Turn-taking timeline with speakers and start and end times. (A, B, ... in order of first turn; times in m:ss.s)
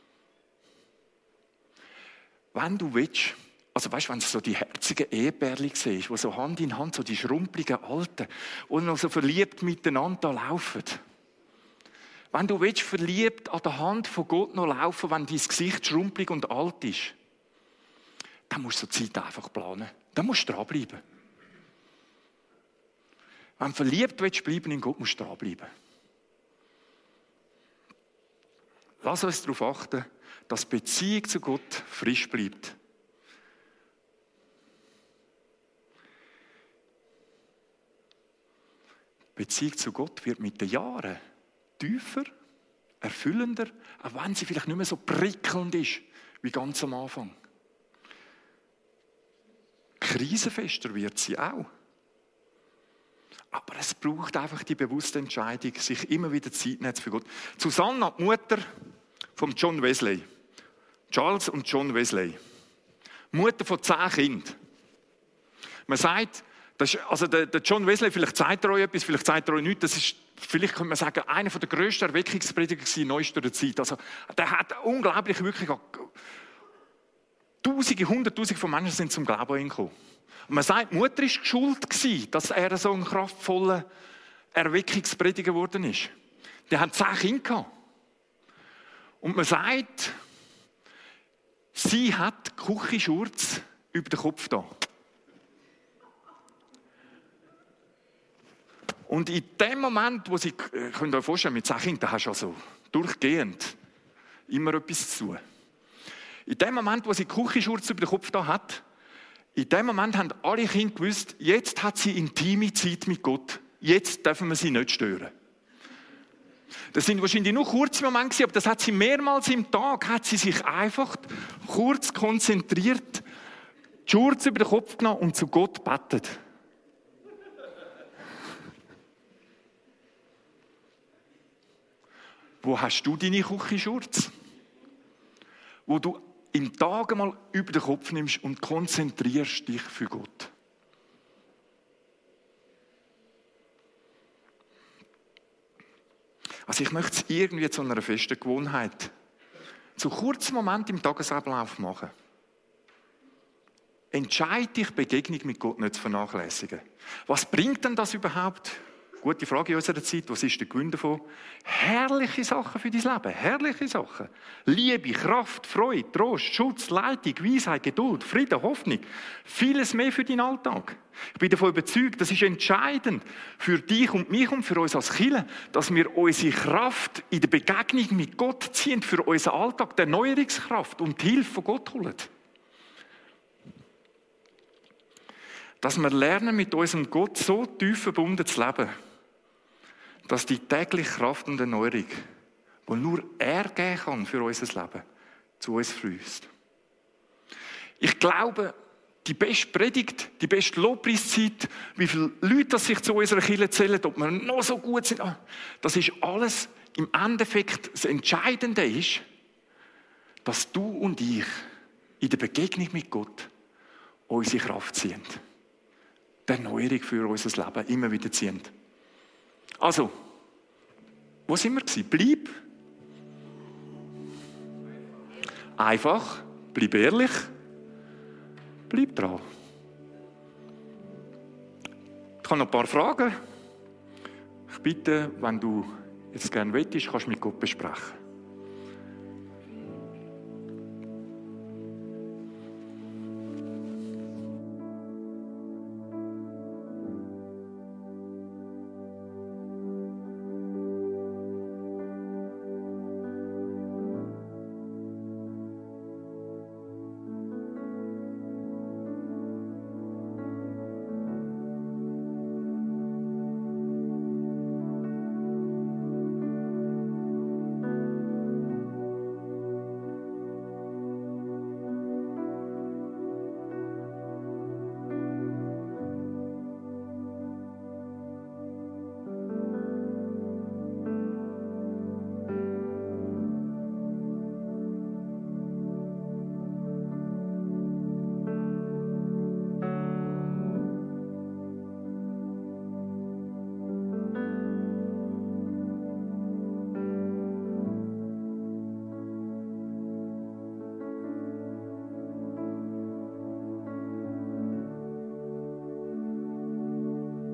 0:02.5-0:11.0 A
0:12.3-0:17.2 A
0:18.5-0:21.0 A
0:23.6-0:25.7 A
0:29.0-0:32.8 A
0:39.3-0:41.2 A
0:41.8-0:42.3 A
0:43.0-0:47.4 A
0:50.0-0:51.7 A
0:53.5-0:58.7 A
0:59.4-1:00.2 A
1:01.1-1:02.4 A
1:03.3-1:04.6 A
1:05.9-1:16.1 A
1:17.6-1:19.9 A
1:20.5-1:23.8 A
1:24.5-1:26.1 A
1:26.7-1:27.7 A
1:29.2-1:30.2 A
1:31.7-1:34.7 A
1:39.1-1:43.8 A
1:44.5-1:45.4 A
1:46.4-1:48.8 A
1:49.5-1:55.3 A
1:56.9-2:03.2 A
2:04.0-2:06.4 A
2:12.6-2:14.3 A
2:15.8-2:20.5 A
2:26.7-2:29.1 A
2:30.0-2:32.1 A
2:34.1-3:02.3 A
3:05.8-3:08.9 A
3:10.2-3:12.2 A
3:12.9-3:15.0 A
3:15.6-3:16.5 A
3:18.0-3:29.2 A
3:30.4-3:31.6 A
3:32.2-3:33.5 A
3:34.3-3:35.4 A
3:36.4-3:38.7 A
3:39.8-3:40.1 A
3:41.5-3:42.5 A
3:45.8-3:47.5 A
3:48.9-3:49.4 A
3:52.4-3:53.4 A
3:54.7-3:58.2 A